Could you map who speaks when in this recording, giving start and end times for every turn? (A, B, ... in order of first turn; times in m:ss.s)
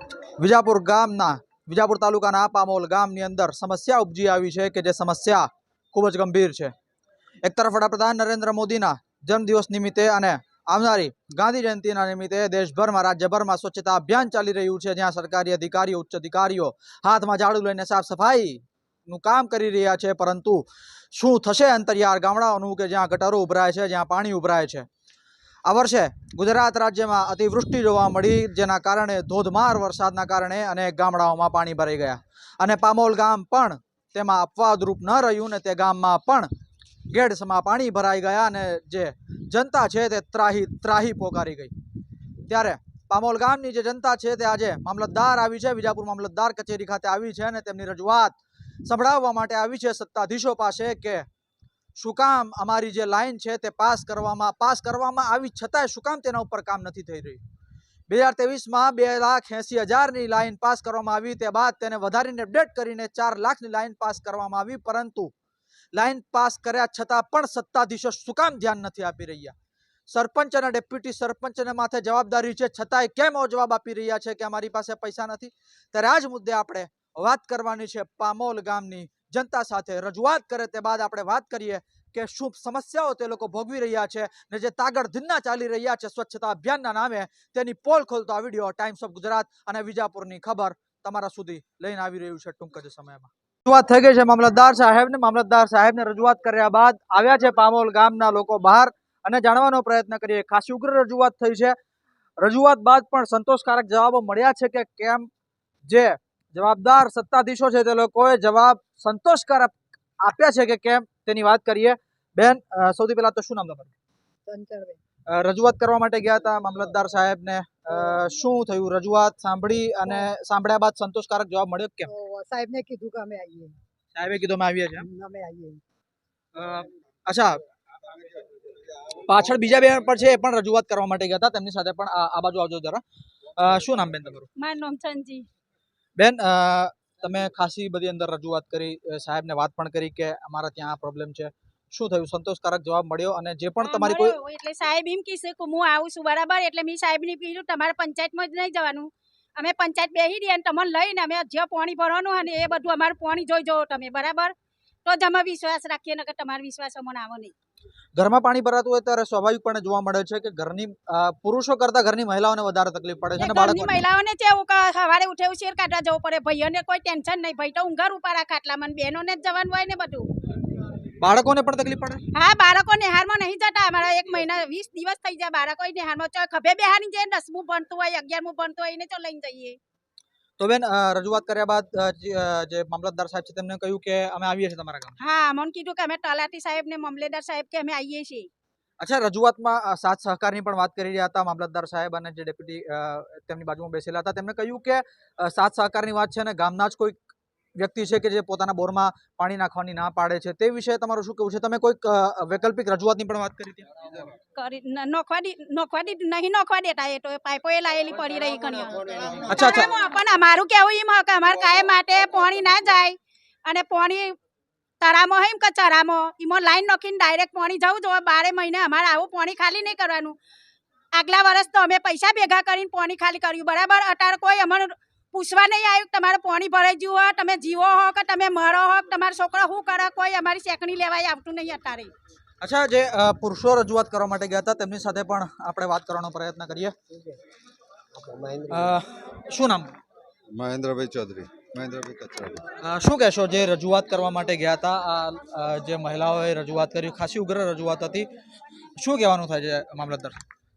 0:00.4-0:06.7 A
0:07.4-0:24.9 A
0:25.7-0:36.5 A
0:37.1-0:41.7 A
0:42.5-0:51.3 A
0:52.0-0:57.4 A
0:58.1-1:05.3 A
1:05.9-1:09.5 A
1:10.1-1:41.8 A
1:42.4-1:45.3 A
1:45.9-1:53.9 A
1:54.5-1:55.0 B
1:55.3-2:02.1 A
2:02.1-2:03.7 B
2:04.2-2:05.1 A
2:05.0-2:05.8 B
2:06.6-2:07.6 A
2:09.1-2:13.0 A
2:13.6-2:14.5 A
2:14.6-2:15.5 C
2:16.2-2:24.4 A
2:23.8-2:34.5 C
2:35.1-2:37.5 C
2:38.2-2:44.0 A
2:43.4-2:50.3 C
2:51.2-2:52.2 A
2:52.4-2:59.8 C
3:00.6-3:05.2 A
3:05.2-3:08.5 C
3:09.0-3:17.2 A
3:17.8-3:24.0 A
3:24.6-3:34.4 C
3:29.5-3:29.9 A
3:35.0-3:40.4 C
3:41.2-3:52.1 C
3:52.6-3:56.9 A
3:58.7-3:59.9 A
4:00.5-4:02.6 D
4:02.8-4:08.3 A
4:09.0-4:10.4 A